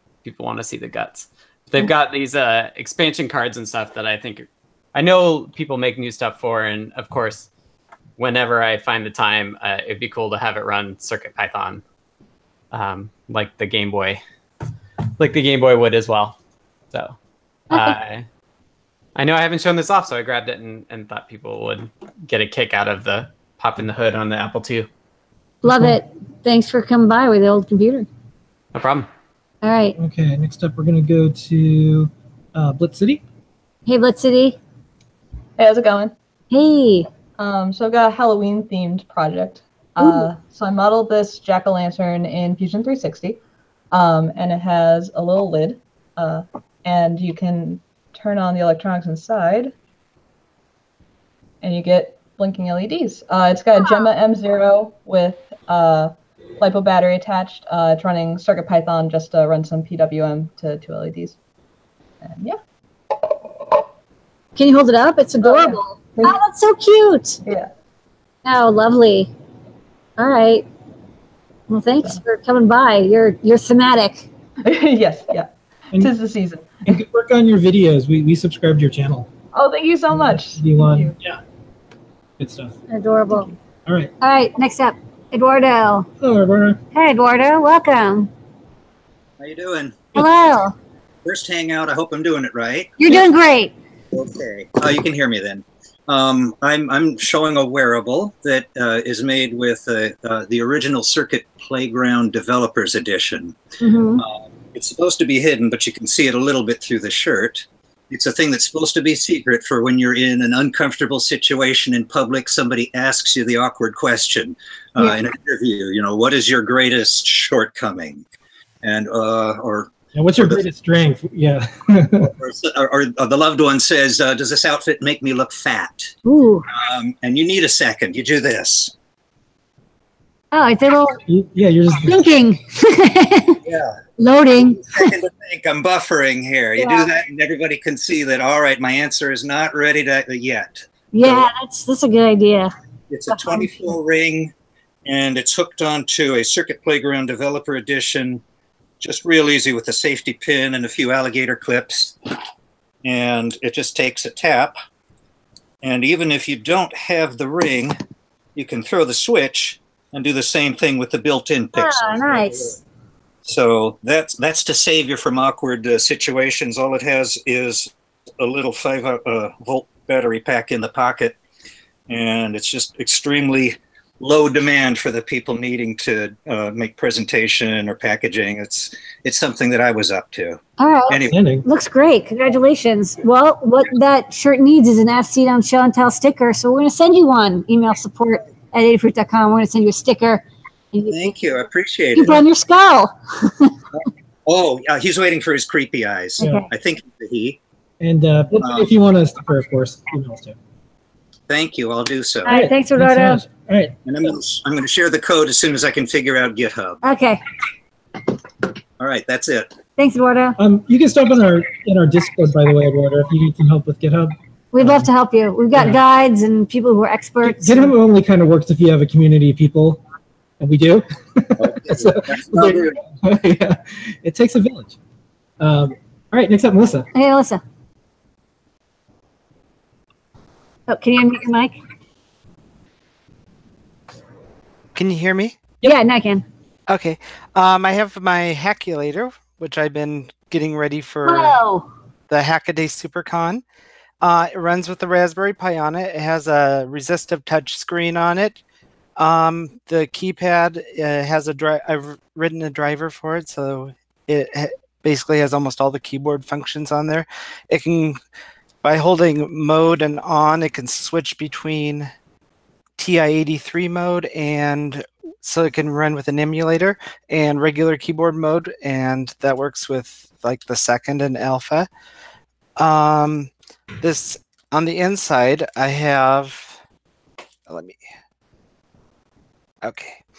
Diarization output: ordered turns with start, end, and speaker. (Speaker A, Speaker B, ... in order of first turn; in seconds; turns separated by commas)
Speaker A: 0.2-7.5, Speaker A: 8.2-11.8, Speaker A: 12.7-14.2, Speaker A: 15.2-16.4, Speaker B: 17.7-18.0, Speaker A: 17.7-18.3, Speaker A: 19.2-24.9, Speaker B: 25.6-28.1, Speaker C: 25.6-26.0, Speaker A: 28.7-29.1, Speaker B: 29.6-30.0, Speaker C: 30.0-33.2, Speaker B: 33.9-34.6, Speaker D: 35.6-36.1, Speaker B: 36.5-37.1, Speaker D: 37.4-43.4, Speaker B: 40.0-40.3, Speaker D: 43.9-49.7, Speaker D: 51.6-61.4, Speaker D: 62.2-62.6, Speaker B: 64.6-67.4, Speaker D: 65.4-66.4, Speaker D: 67.5-67.7, Speaker B: 68.5-69.3, Speaker B: 70.2-70.7, Speaker B: 71.7-74.3, Speaker D: 74.7-77.0, Speaker C: 76.9-79.3, Speaker D: 79.5-81.1, Speaker C: 80.1-81.4, Speaker C: 82.4-82.8, Speaker B: 82.9-83.5, Speaker C: 83.9-84.1, Speaker B: 84.2-86.1, Speaker C: 86.2-86.8, Speaker B: 86.9-88.3, Speaker E: 89.4-90.2, Speaker B: 90.2-90.8, Speaker E: 91.2-93.3, Speaker B: 93.0-93.7, Speaker E: 94.1-103.6, Speaker B: 103.8-104.2, Speaker E: 104.2-118.2, Speaker E: 118.8-120.6, Speaker C: 120.1-122.3, Speaker E: 122.4-126.1, Speaker B: 126.2-126.7, Speaker E: 126.7-128.9, Speaker B: 130.5-131.2, Speaker C: 131.3-132.2, Speaker B: 132.0-133.6, Speaker E: 133.6-134.0, Speaker B: 134.2-135.1, Speaker E: 134.7-141.5, Speaker B: 136.8-137.1, Speaker B: 141.1-142.7, Speaker E: 143.1-144.5, Speaker B: 143.3-143.7, Speaker E: 145.1-148.4, Speaker E: 149.0-152.2, Speaker E: 153.0-154.8, Speaker E: 155.8-158.0, Speaker E: 158.6-162.8, Speaker B: 161.8-162.8, Speaker E: 163.4-171.4, Speaker E: 172.1-181.4, Speaker B: 180.8-191.2, Speaker C: 181.3-181.7, Speaker E: 191.1-192.4, Speaker B: 192.2-193.7, Speaker E: 194.5-197.6, Speaker B: 196.4-196.7, Speaker C: 196.4-196.7, Speaker C: 198.0-200.6, Speaker E: 198.6-198.9, Speaker E: 201.5-202.5, Speaker C: 202.4-203.9, Speaker B: 202.4-203.4, Speaker E: 204.1-207.0, Speaker B: 207.0-207.4, Speaker E: 209.0-209.7, Speaker B: 210.0-210.6, Speaker C: 210.6-215.1, Speaker B: 214.7-217.9, Speaker C: 215.7-216.0, Speaker C: 217.4-220.0, Speaker C: 220.6-224.9, Speaker E: 221.6-223.0, Speaker C: 225.6-227.1, Speaker B: 227.1-227.6, Speaker B: 230.9-231.8, Speaker F: 234.9-235.6, Speaker B: 235.8-236.4, Speaker F: 236.9-241.6, Speaker B: 241.2-241.9, Speaker F: 242.3-243.6, Speaker F: 244.2-248.6, Speaker F: 249.2-258.2, Speaker F: 258.8-262.1, Speaker F: 263.0-271.9, Speaker F: 272.8-276.8, Speaker F: 277.7-278.0, Speaker F: 279.8-280.2